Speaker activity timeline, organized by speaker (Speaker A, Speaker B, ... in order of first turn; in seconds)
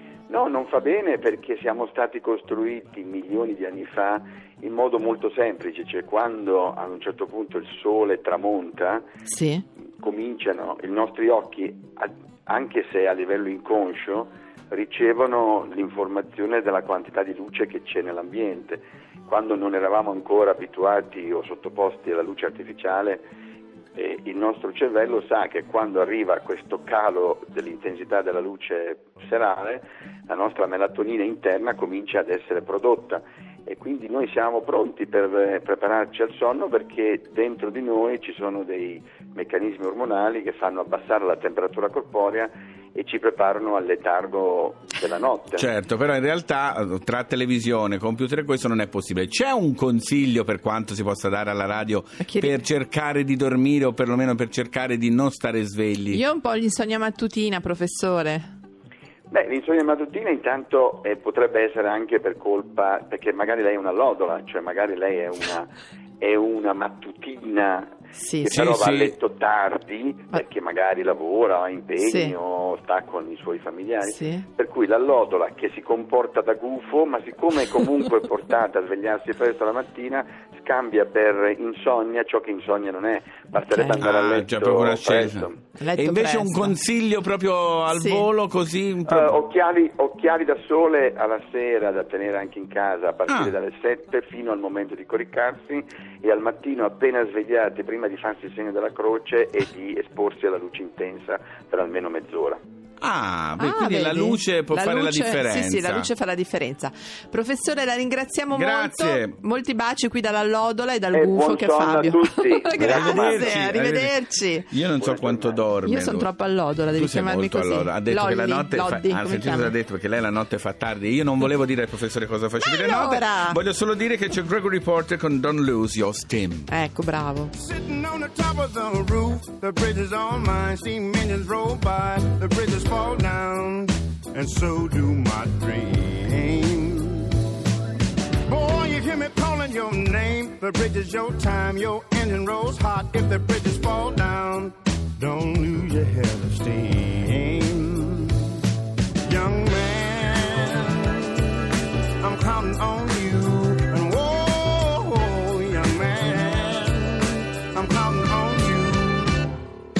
Speaker A: 0.3-9.0, 10.0-23.2, 23.9-45.7, 59.3-85.6, 89.1-102.6, 111.1-113.6, 115.0-115.6
Speaker B: 9.2-9.6, 52.2-52.6, 56.1-58.5, 68.1-68.6, 72.0-72.3, 74.0-74.5, 83.7-84.0, 85.8-86.8, 87.9-88.2, 103.6-114.7, 115.8-119.7, 122.6-123.6, 126.7-127.5
Speaker C: 45.6-56.2, 68.5-69.1, 84.0-89.3, 93.3-93.5, 103.0-106.1, 108.5-109.4, 112.8-114.2, 114.7-116.3, 116.9-126.7
Speaker D: 127.5-137.3, 138.4-148.5, 149.2-159.4